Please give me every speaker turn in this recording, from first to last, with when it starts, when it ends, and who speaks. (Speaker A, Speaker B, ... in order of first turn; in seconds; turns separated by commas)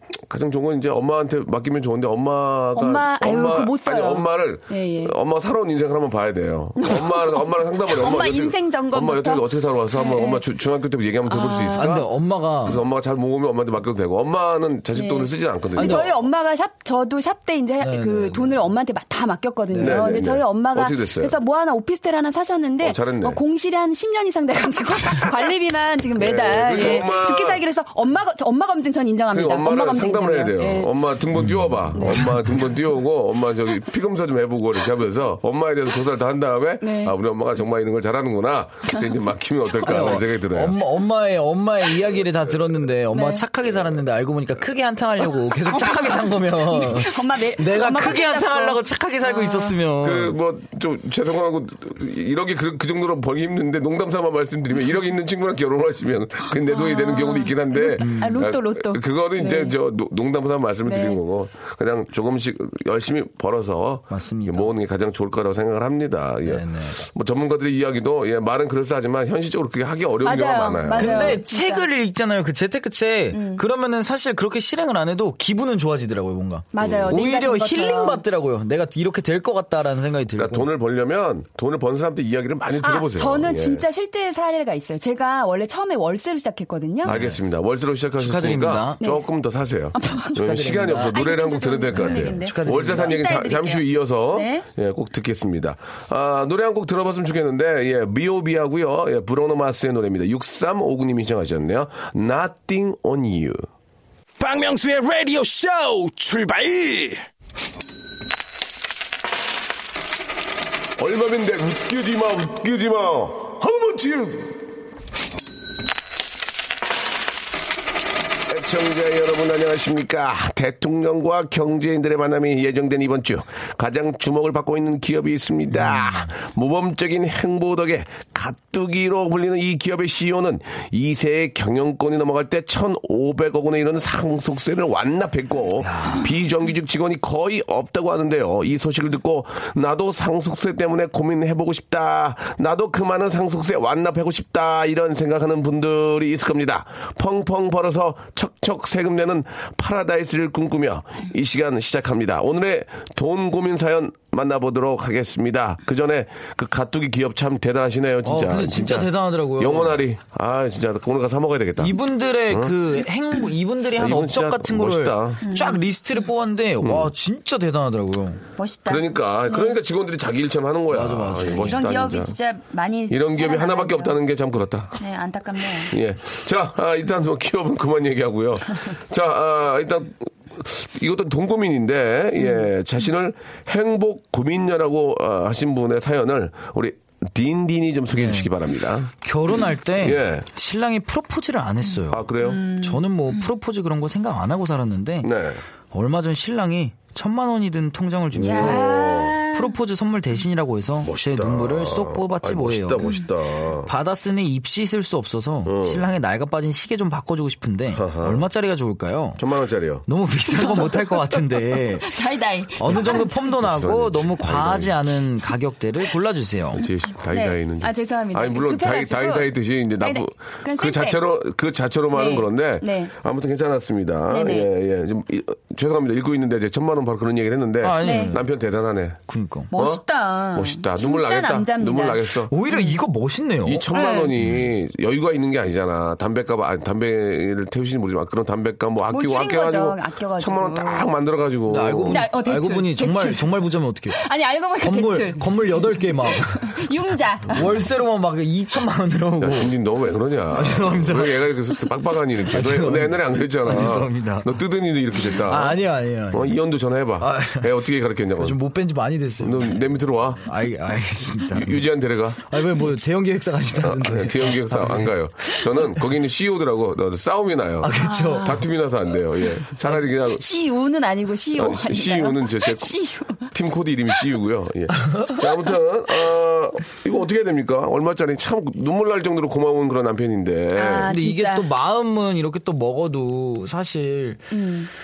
Speaker A: 0.3-16.1, Speaker B: 2.8-5.2, Speaker B: 6.8-10.4, Speaker B: 11.3-11.9, Speaker C: 11.7-12.8, Speaker B: 14.9-30.9, Speaker C: 15.8-16.1, Speaker C: 17.8-18.6, Speaker C: 19.7-20.2, Speaker A: 19.8-21.4, Speaker A: 22.8-23.4, Speaker A: 26.2-27.6, Speaker A: 29.3-40.8, Speaker C: 31.4-32.6, Speaker B: 31.9-32.4, Speaker B: 36.8-37.1, Speaker B: 39.8-40.2, Speaker C: 39.8-50.4, Speaker B: 43.1-43.5, Speaker B: 45.7-49.8, Speaker A: 50.0-71.4, Speaker B: 56.6-59.7, Speaker C: 58.0-58.5, Speaker B: 60.9-61.2, Speaker C: 64.1-64.7, Speaker C: 66.4-67.0, Speaker B: 70.2-71.9, Speaker C: 70.9-80.7, Speaker B: 73.3-73.6, Speaker B: 76.7-78.2, Speaker A: 76.8-77.2, Speaker A: 80.4-83.8, Speaker B: 82.8-87.2, Speaker C: 87.0-87.4, Speaker A: 87.0-103.6, Speaker C: 88.2-89.0, Speaker B: 89.9-94.7, Speaker C: 90.4-91.2, Speaker C: 91.9-93.2, Speaker D: 104.4-107.2, Speaker A: 111.0-114.6, Speaker A: 118.5-162.0, Speaker C: 125.7-126.3, Speaker C: 135.8-136.3, Speaker C: 158.2-160.0, Speaker C: 161.8-168.4, Speaker A: 162.5-162.8, Speaker A: 163.9-165.5, Speaker B: 165.4-165.8, Speaker A: 166.8-167.1, Speaker B: 168.6-169.8, Speaker A: 168.9-172.3, Speaker C: 170.9-171.8, Speaker B: 171.4-174.2, Speaker A: 173.1-174.9, Speaker B: 175.0-175.9, Speaker A: 175.9-190.5, Speaker C: 188.1-188.5, Speaker C: 189.2-195.3, Speaker A: 192.1-192.7, Speaker B: 192.4-193.4, Speaker A: 195.2-195.6, Speaker C: 195.9-203.1, Speaker A: 198.3-199.4, Speaker B: 198.4-199.7, Speaker A: 201.0-203.9, Speaker C: 203.9-209.4, Speaker A: 205.7-206.1, Speaker A: 207.9-208.5, Speaker A: 209.4-210.1, Speaker C: 210.1-212.2, Speaker B: 210.5-213.5, Speaker C: 212.8-216.8, Speaker A: 212.9-215.1, Speaker A: 216.8-229.2, Speaker B: 217.3-221.2, Speaker B: 222.1-223.1, Speaker B: 224.3-224.7, Speaker C: 227.8-228.4, Speaker B: 228.0-228.3, Speaker C: 229.3-229.7, Speaker B: 229.7-233.0, Speaker A: 229.7-230.0, Speaker A: 230.5-232.5, Speaker C: 232.5-233.9, Speaker A: 233.7-242.2, Speaker B: 233.9-234.3, Speaker B: 239.1-241.1, Speaker C: 241.7-244.2, Speaker B: 242.1-243.5, Speaker B: 244.1-247.7, Speaker C: 244.8-246.8, Speaker C: 247.5-249.7, Speaker A: 249.4-258.6, Speaker C: 250.5-251.4, Speaker C: 252.5-254.5, Speaker C: 255.4-256.5, Speaker C: 257.2-257.7, Speaker C: 258.4-259.8, Speaker A: 259.4-260.5, Speaker C: 260.4-261.8, Speaker A: 261.5-262.5, Speaker C: 262.5-265.1, Speaker A: 263.8-270.4, Speaker C: 267.8-268.6, Speaker B: 268.0-268.7, Speaker B: 270.3-273.5, Speaker A: 271.6-281.1, Speaker B: 280.8-281.7, Speaker C: 281.1-284.5, Speaker B: 284.5-284.9